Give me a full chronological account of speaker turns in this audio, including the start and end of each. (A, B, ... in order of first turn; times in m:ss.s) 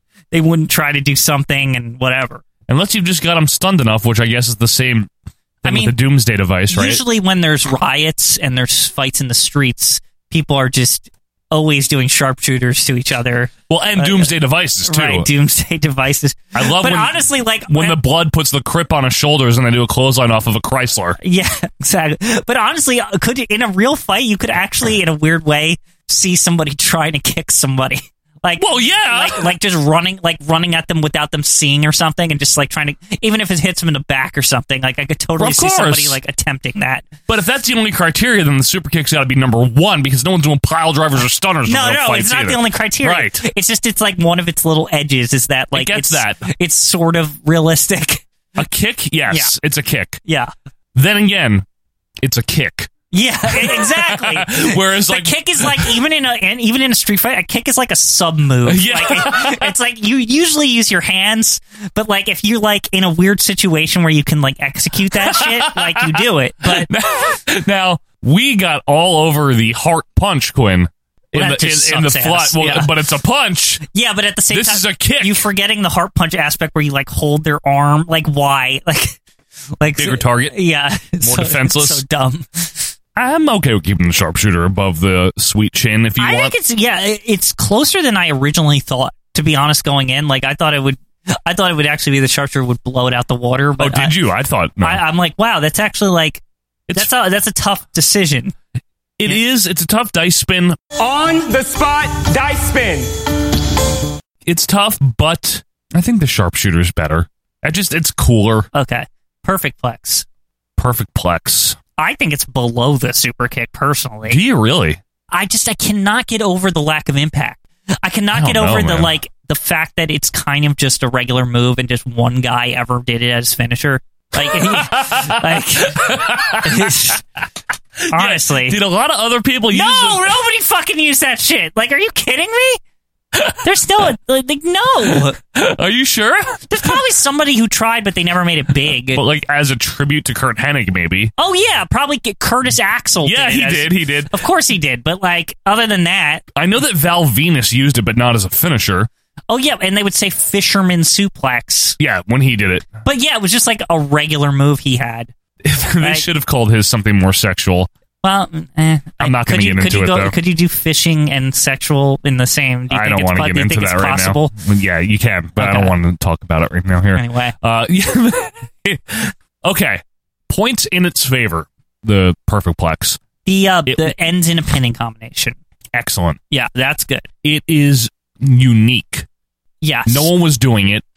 0:00.3-0:02.4 A
0:02.7-0:05.1 B
0:05.6-0:07.0 B
0:05.6-0:06.0 A
0:06.7-0:18.0 A
0:13.7-0:15.3 B
0:16.6-0:21.2 B
0:21.2-0:37.1 A
0:28.6-0:29.5 B
0:35.4-0:36.2 B
0:37.3-0:43.4 B
0:41.7-0:48.2 A
0:45.7-0:46.5 B
0:48.6-0:50.2 B
0:50.2-0:50.5 A
0:50.9-0:51.6 B
0:52.2-0:52.9 B
0:53.1-1:06.9 A
0:53.4-0:56.0 B
0:58.6-0:59.7 B
1:05.2-1:13.8 B
1:11.3-1:12.9 A
1:13.9-1:19.2 A
1:14.5-1:15.4 B
1:19.8-1:22.9 A
1:20.0-1:20.6 B
1:21.2-1:22.0 B
1:23.1-1:26.5 B
1:26.2-1:34.2 A
1:33.8-1:35.0 B
1:34.8-1:36.4 A
1:36.9-1:38.6 A
1:39.2-1:40.8 B
1:41.0-1:43.1 C
1:44.4-1:48.7 B
1:48.7-1:50.2 A
1:50.8-1:51.8 B
1:52.0-1:54.4 A
1:54.3-1:55.0 B
1:55.3-2:07.2 A
1:58.3-1:59.1 B
2:04.4-2:07.1 B
2:08.0-2:10.3 B
2:08.1-2:08.8 A
2:09.7-2:12.8 A
2:13.3-2:13.6 B
2:13.6-2:15.4 A
2:15.1-2:17.0 B
2:16.7-2:19.2 A
2:19.1-2:21.3 B
2:21.4-2:26.4 A
2:23.2-2:24.3 B
2:26.6-2:29.1 B
2:29.5-2:32.0 A
2:32.0-2:32.9 B
2:33.0-2:35.3 A
2:35.6-2:37.9 B
2:36.0-2:36.3 A
2:38.2-2:44.5 A
2:39.2-2:40.4 B
2:42.9-2:53.2 B
2:45.6-2:45.9 A
2:47.1-2:47.6 A
2:53.4-2:55.6 A
2:53.9-2:54.1 B
2:55.9-2:56.4 B
2:56.5-2:57.3 A
2:57.4-2:59.3 B
2:59.8-3:00.3 A
3:00.1-3:01.0 B